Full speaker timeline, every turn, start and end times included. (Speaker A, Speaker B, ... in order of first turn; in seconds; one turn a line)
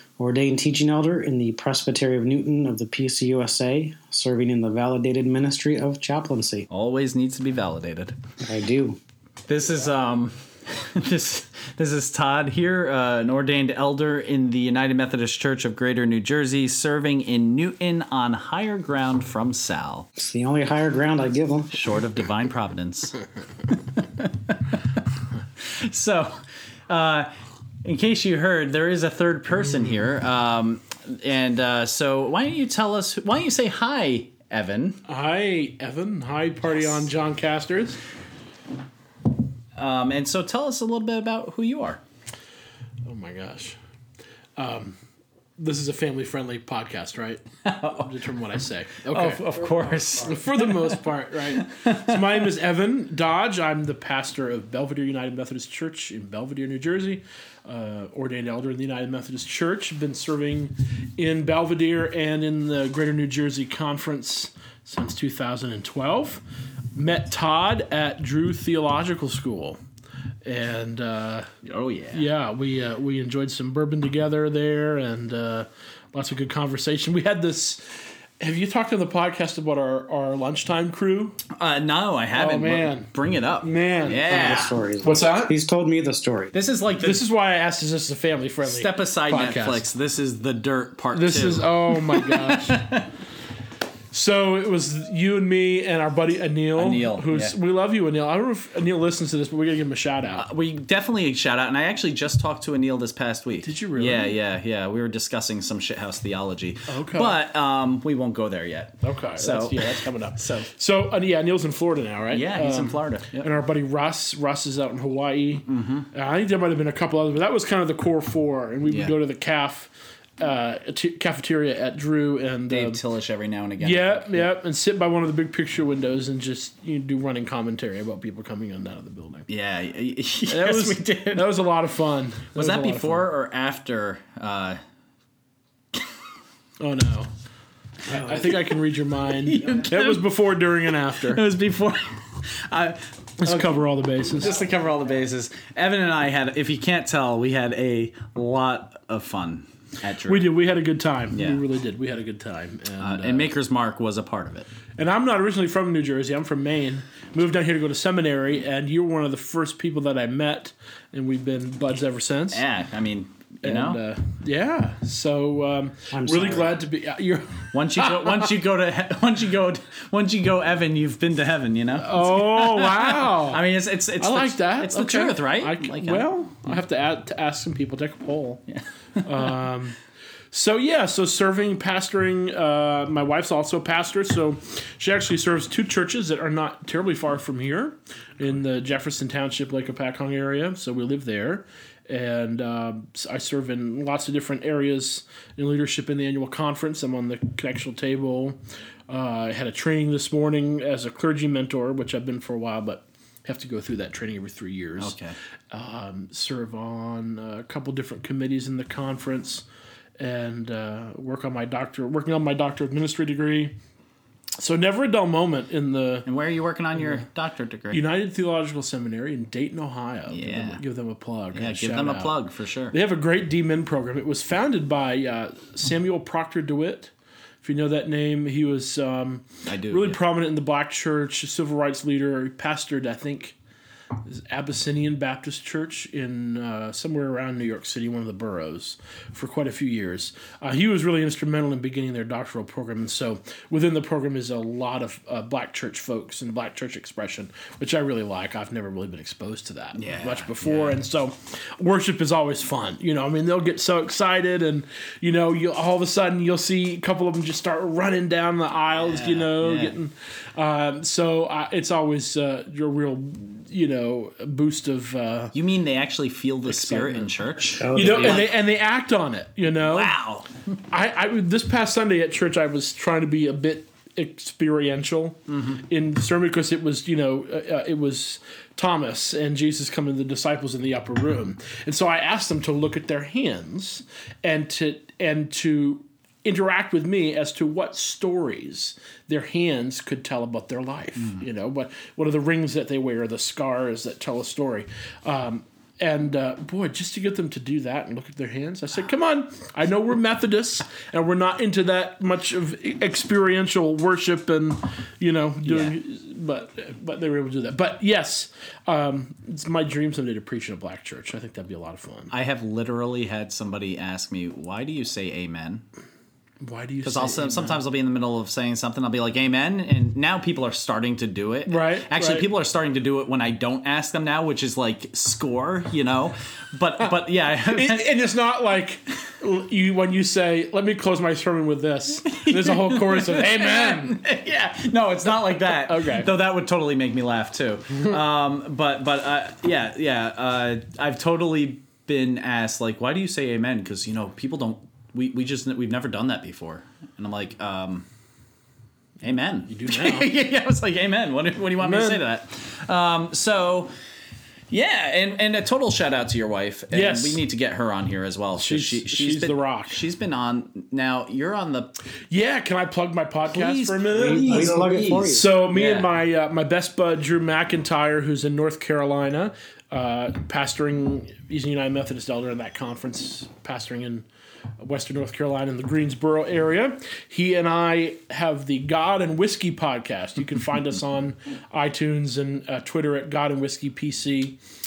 Speaker A: 0.2-6.7
Speaker B: 6.7-8.2
Speaker A: 8.4-9.0
Speaker B: 9.5-20.1
Speaker A: 20.2-21.7
Speaker B: 21.7-24.9
Speaker B: 25.6-26.4
Speaker B: 26.9-27.3
Speaker B: 27.8-35.0
Speaker C: 35.1-38.0
Speaker B: 39.8-42.0
Speaker C: 43.0-43.8
Speaker C: 44.6-45.0
Speaker C: 45.6-49.4
Speaker B: 47.6-48.1
Speaker B: 49.1-51.0
Speaker C: 50.2-66.4
Speaker B: 51.5-52.4
Speaker C: 66.9-69.8
Speaker C: 70.5-71.5
Speaker B: 71.6-72.3
Speaker C: 72.1-81.4
Speaker B: 81.5-84.7
Speaker C: 82.3-83.1
Speaker C: 83.6-85.5
Speaker A: 84.2-86.5
Speaker B: 86.5-87.2
Speaker C: 87.0-89.8
Speaker B: 88.6-93.1
Speaker C: 91.1-92.9
Speaker C: 94.1-100.5
Speaker B: 96.8-97.5
Speaker B: 100.4-110.6
Speaker C: 103.6-104.3
Speaker C: 106.9-107.3
Speaker C: 109.0-123.0
Speaker B: 112.3-113.5
Speaker B: 115.7-116.1
Speaker B: 118.9-119.2
Speaker B: 122.7-124.5
Speaker C: 123.8-129.5
Speaker B: 129.5-131.5
Speaker C: 130.5-133.2
Speaker B: 132.6-134.8
Speaker C: 136.8-137.3
Speaker C: 138.1-141.4
Speaker B: 138.1-138.7
Speaker B: 139.4-140.3
Speaker B: 141.1-143.8
Speaker C: 143.4-144.5
Speaker B: 144.4-150.5
Speaker C: 150.2-153.5
Speaker B: 151.3-151.6
Speaker B: 153.0-154.7
Speaker C: 155.0-162.6
Speaker B: 162.5-164.0
Speaker C: 163.6-168.5
Speaker A: 166.1-166.8
Speaker B: 167.7-176.3
Speaker C: 172.0-173.6
Speaker C: 174.2-178.6
Speaker C: 179.2-180.0
Speaker C: 180.5-198.6
Speaker C: 199.1-205.2
Speaker B: 205.0-205.3
Speaker C: 205.7-209.7
Speaker C: 210.2-213.8
Speaker C: 214.6-216.3
Speaker B: 216.3-218.0
Speaker C: 217.9-222.3
Speaker B: 220.3-220.8
Speaker B: 221.5-223.0
Speaker C: 222.9-233.6
Speaker B: 229.7-230.2
Speaker C: 234.2-265.5
Speaker B: 249.9-251.0
Speaker B: 259.0-260.0
Speaker B: 265.5-268.5
Speaker C: 266.7-267.3
Speaker A: 267.8-268.4
Speaker C: 267.9-270.1
Speaker B: 269.9-270.5
Speaker C: 270.9-312.3
Speaker B: 275.5-275.8
Speaker B: 291.2-291.4
Speaker B: 305.6-306.0
Speaker B: 312.3-315.9
Speaker C: 316.6-317.8
Speaker B: 317.0-328.1
Speaker C: 321.7-322.5
Speaker C: 327.7-334.2
Speaker B: 332.3-348.1
Speaker C: 335.8-336.3
Speaker B: 349.2-353.9
Speaker C: 349.7-350.3
Speaker C: 351.8-352.2
Speaker B: 354.7-361.9
Speaker C: 356.9-357.4
Speaker C: 358.6-360.0
Speaker C: 362.3-374.2
Speaker B: 363.5-366.1
Speaker A: 364.1-365.5
Speaker C: 374.8-384.6